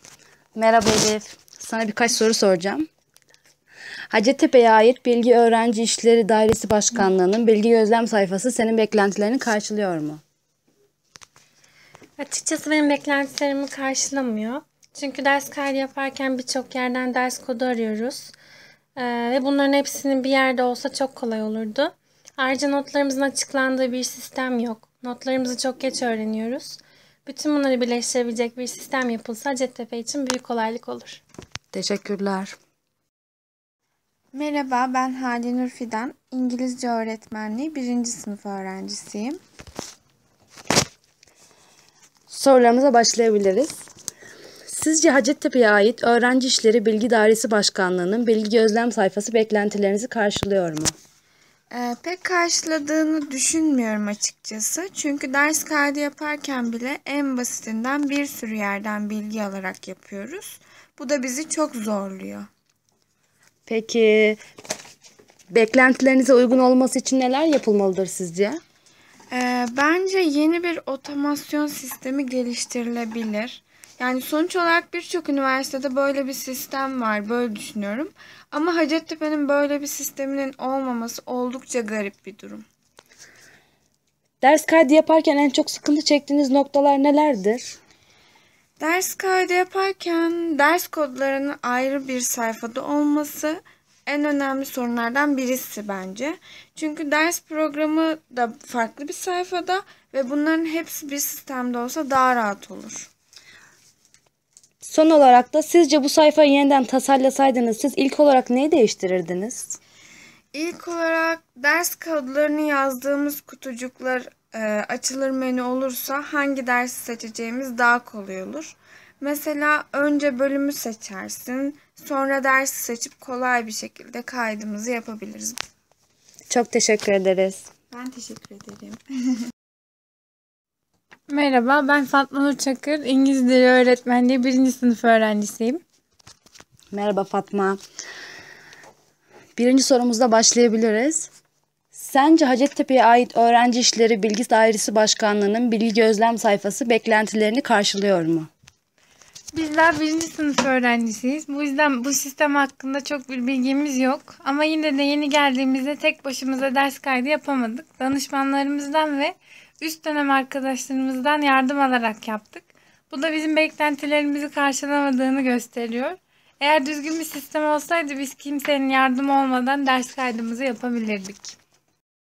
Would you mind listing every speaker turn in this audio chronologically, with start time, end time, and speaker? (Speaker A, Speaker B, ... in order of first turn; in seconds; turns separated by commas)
Speaker A: 0.6-2.9, Speaker A: 4.1-10.2, Speaker B: 12.2-18.3, Speaker B: 18.9-31.2, Speaker A: 31.7-32.5, Speaker C: 34.3-39.4, Speaker A: 42.3-43.8, Speaker A: 44.7-50.9, Speaker C: 51.7-62.5, Speaker A: 63.7-64.4, Speaker A: 65.5-68.6, Speaker C: 69.3-82.7, Speaker A: 84.4-87.8, Speaker C: 88.8-103.1, Speaker A: 104.8-109.8, Speaker C: 110.5-125.6, Speaker A: 126.5-127.7, Speaker C: 127.9-129.0, Speaker D: 131.3-135.8, Speaker A: 136.9-137.8, Speaker A: 139.6-141.3, Speaker A: 141.9-148.5, Speaker D: 149.5-171.6